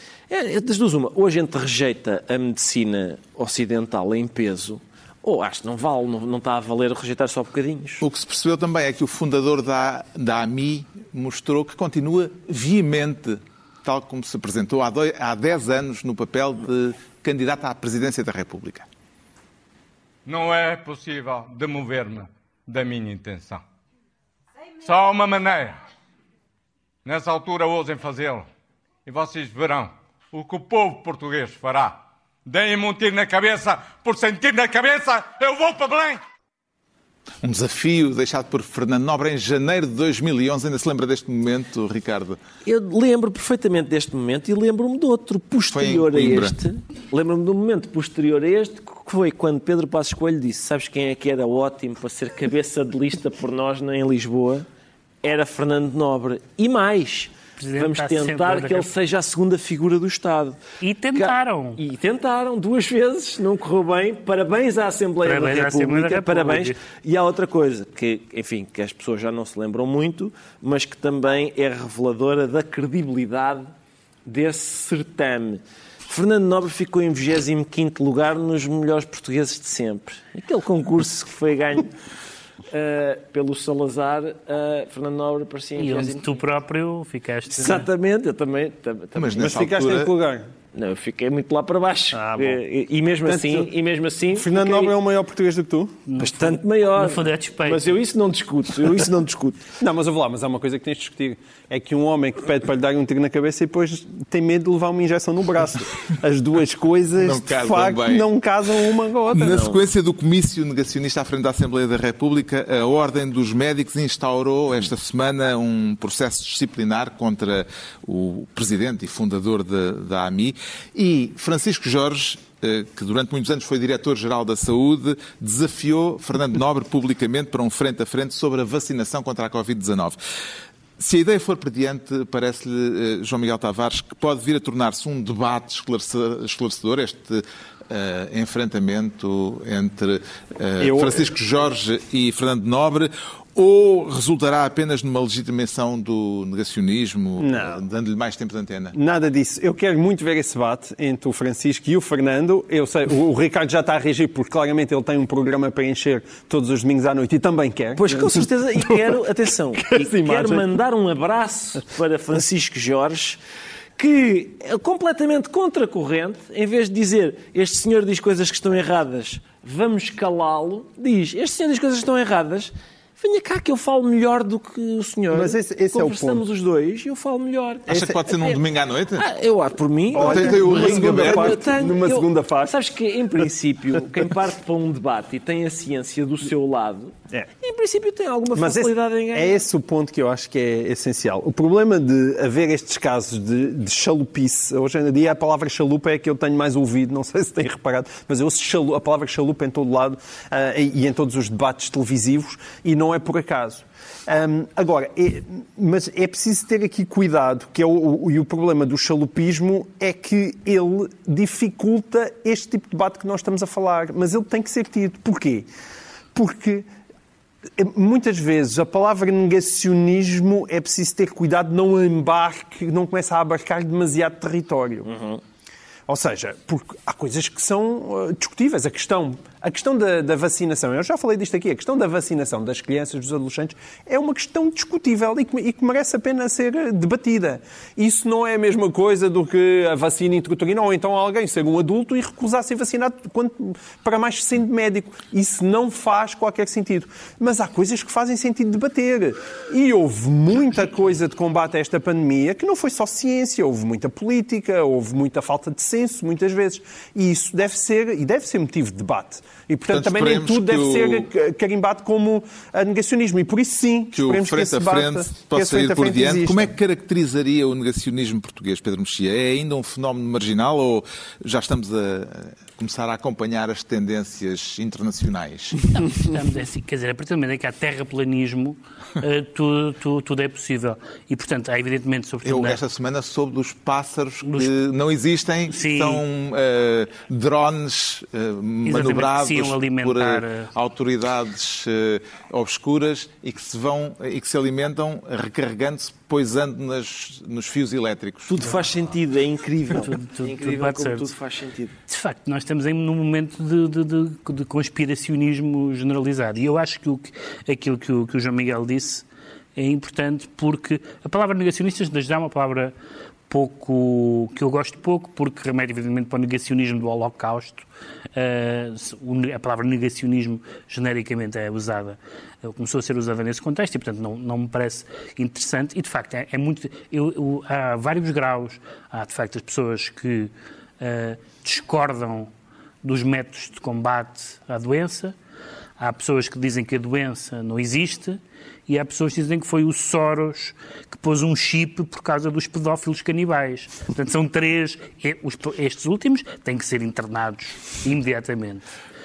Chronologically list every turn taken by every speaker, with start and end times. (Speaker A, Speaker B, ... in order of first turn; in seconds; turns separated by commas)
Speaker A: 0.3-8.0, Speaker B: 8.0-18.9, Speaker C: 20.2-23.6, Speaker C: 24.8-25.8, Speaker C: 27.0-28.5, Speaker C: 29.1-36.2, Speaker B: 37.4-42.4, Speaker A: 42.6-54.6, Speaker B: 45.7-46.5, Speaker A: 55.2-60.6, Speaker D: 57.6-58.9, Speaker D: 60.8-61.8, Speaker A: 61.1-73.7, Speaker D: 65.2-66.8, Speaker A: 74.2-81.9, Speaker A: 82.7-86.3, Speaker D: 85.8-87.9, Speaker A: 87.5-89.7, Speaker B: 89.2-90.1, Speaker E: 89.4-90.5, Speaker A: 90.7-94.9, Speaker E: 92.1-92.6, Speaker E: 93.2-93.7, Speaker E: 94.3-96.0, Speaker D: 96.1-97.8, Speaker A: 96.2-99.6, Speaker E: 99.8-109.7, Speaker B: 107.2-108.3, Speaker B: 109.3-130.2, Speaker B: 131.0-148.9, Speaker E: 140.8-141.3, Speaker E: 147.4-147.8, Speaker E: 148.9-159.2, Speaker A: 158.0-163.4, Speaker E: 159.7-160.7, Speaker A: 164.0-178.6, Speaker E: 175.3-176.4, Speaker B: 177.9-179.2, Speaker E: 177.9-178.2, Speaker A: 179.2-189.6, Speaker E: 180.1-182.7, Speaker B: 180.1-181.6, Speaker E: 188.5-215.7, Speaker E: 216.3-216.9, Speaker E: 217.8-225.1, Speaker A: 225.1-225.4, Speaker E: 226.1-266.7, Speaker B: 259.9-261.3, Speaker B: 264.1-275.8, Speaker D: 275.9-282.8, Speaker B: 282.4-298.7, Speaker D: 284.5-284.7, Speaker D: 285.7-286.2, Speaker D: 288.8-290.7, Speaker A: 298.5-301.9, Speaker D: 300.0-301.3, Speaker D: 302.1-312.9, Speaker D: 313.5-332.5, Speaker D: 333.0-335.4, Speaker D: 336.0-348.9